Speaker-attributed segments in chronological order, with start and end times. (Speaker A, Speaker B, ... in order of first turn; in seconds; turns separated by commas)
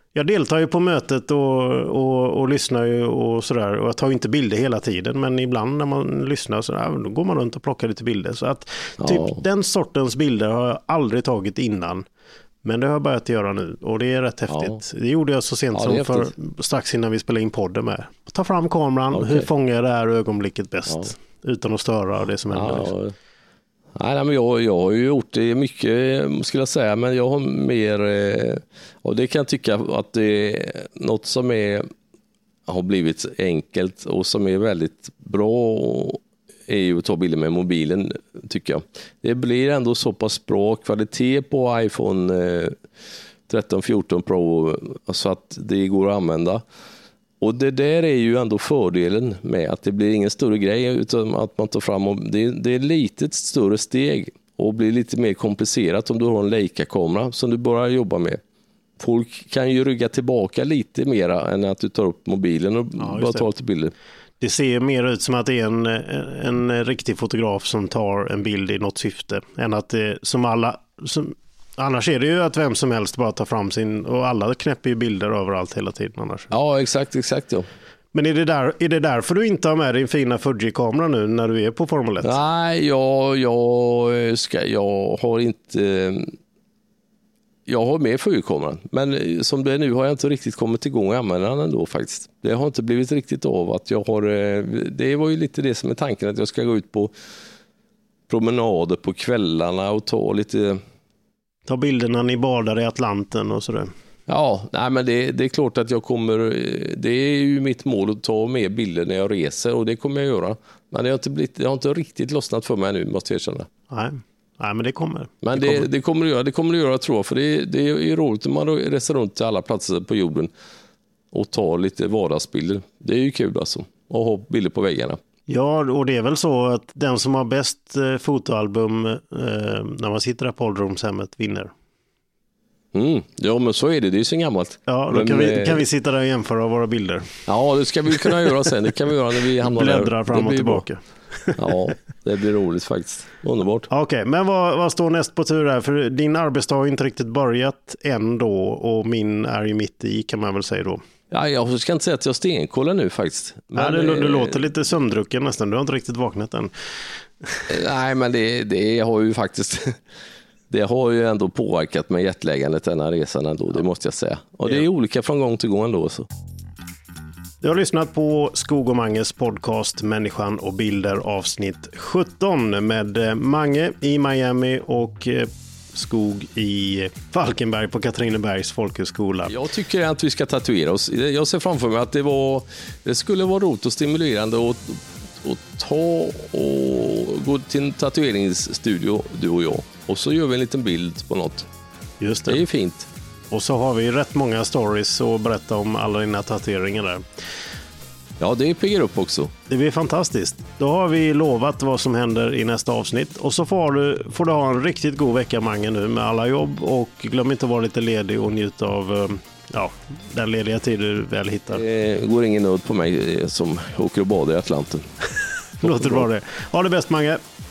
Speaker A: 0.1-12.1, Speaker B: 9.0-9.4, Speaker A: 12.6-22.9, Speaker B: 14.5-14.8, Speaker B: 15.7-16.3, Speaker B: 19.1-19.5, Speaker B: 22.5-23.1, Speaker B: 23.9-31.9, Speaker B: 32.7-42.8, Speaker B: 43.5-46.6, Speaker B: 47.4-58.4, Speaker B: 59.0-63.9, Speaker A: 63.0-63.5, Speaker A: 64.4-76.5, Speaker B: 76.5-77.7, Speaker A: 78.1-82.4, Speaker B: 82.2-86.3, Speaker B: 87.7-97.1, Speaker B: 98.3-100.8, Speaker A: 101.7-103.9, Speaker B: 104.3-113.7, Speaker A: 113.9-115.9, Speaker B: 115.4-120.5, Speaker B: 121.3-125.2, Speaker A: 125.5-131.7, Speaker B: 132.9-135.8, Speaker A: 134.9-137.4, Speaker B: 137.5-140.8, Speaker A: 138.1-138.5, Speaker A: 139.6-141.8, Speaker B: 141.6-143.9, Speaker A: 143.9-151.0, Speaker B: 151.3-154.6, Speaker A: 153.8-157.7, Speaker B: 157.7-160.0, Speaker B: 160.7-166.3, Speaker A: 167.6-179.5, Speaker B: 179.5-191.7, Speaker A: 192.2-192.6, Speaker B: 192.5-193.1, Speaker A: 193.5-197.2, Speaker B: 198.4-199.5, Speaker A: 199.7-211.8, Speaker B: 211.7-215.1, Speaker B: 215.8-216.3, Speaker A: 215.8-217.4